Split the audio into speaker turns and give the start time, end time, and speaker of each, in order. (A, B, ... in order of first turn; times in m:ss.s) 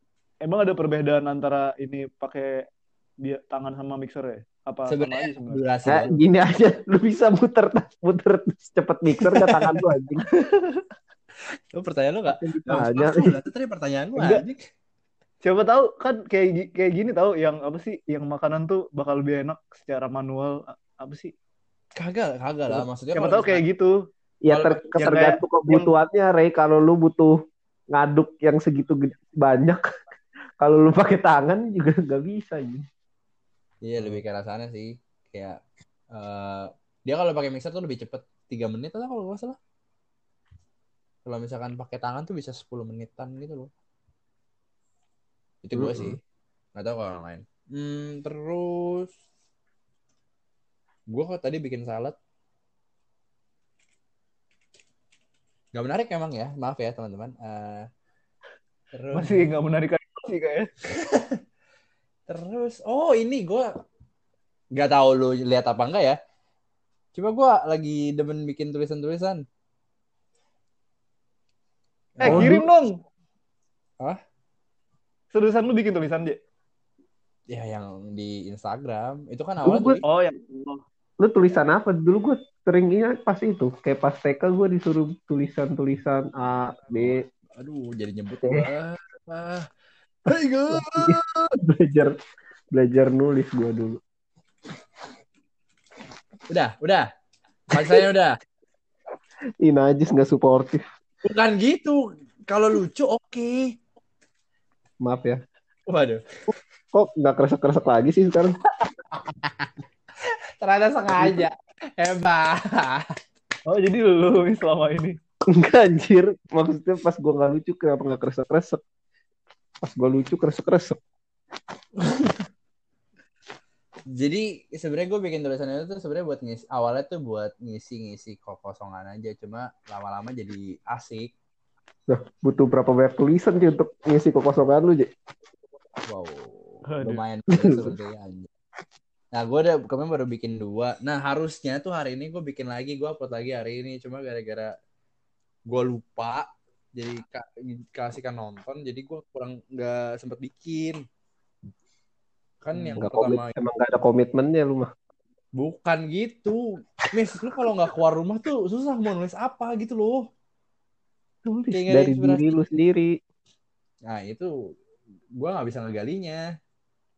0:00.4-0:02.7 A
0:03.2-0:06.1 A
0:04.9-0:06.1 B
0:05.9-0:10.2 C
0:09.4-0:09.7 B
0:10.3-0:10.8 A
0:11.7-0:14.6 B
0:12.3-0:13.4 C
0:14.2-0:14.4 A
0:15.4-0:21.3 A
0:22.0-0:23.6 B
0:23.1-0:23.9 A
0:24.4-0:27.4 C
0:24.5-0:25.0 B
0:25.0-0:25.9 A
0:27.9-0:29.8 C
0:30.6-0:32.8 C
0:33.8-0:35.6 B
0:36.1-0:39.6 B
0:41.2-0:43.7 B
0:45.6-0:46.2 B
0:45.7-0:46.1 C
0:46.8-0:49.1 B
0:51.1-0:52.2 B
0:55.7-0:57.9 B
0:58.9-0:59.5 B
0:59.1-1:00.7 A
1:00.9-1:01.4 B
1:02.3-1:03.7 B
1:04.7-1:06.2 B
1:07.1-1:09.4 B
1:12.2-1:12.6 B
1:12.2-1:12.9 A
1:12.2-1:12.6 C
1:15.3-1:16.4 A
1:17.5-1:20.0 B
1:19.6-1:20.0 C
1:20.0-1:20.8 A
1:21.2-1:27.2 C
1:26.9-1:29.7 B
1:28.4-1:28.7 C
1:30.3-1:31.5 B
1:30.7-1:32.1 C
1:32.7-1:34.0 C
1:36.5-1:37.0 B
1:37.7-1:38.4 B
1:37.8-1:38.0 C
1:39.6-1:40.8 C
1:41.2-1:43.7 B
1:45.0-1:45.4 C
1:45.9-1:46.2 B
1:46.9-1:48.5 C
1:49.1-1:49.7 B
1:50.2-1:53.1 B
1:51.2-1:51.4 C
1:53.6-1:55.2 A
1:55.5-1:58.8 C
1:59.8-2:01.0 C
2:02.0-2:02.4 B
2:04.1-2:11.3 B
2:12.1-2:15.1 C
2:16.1-2:18.5 B
2:16.9-2:17.2 A
2:17.6-2:17.9 C
2:19.3-2:24.7 B
2:25.7-2:31.0 B
2:32.6-2:33.6 B
2:32.8-2:34.9 C
2:35.6-2:40.2 B
2:41.4-2:43.1 C
2:41.7-2:42.6 B
2:44.1-2:44.5 B
2:45.4-2:46.4 B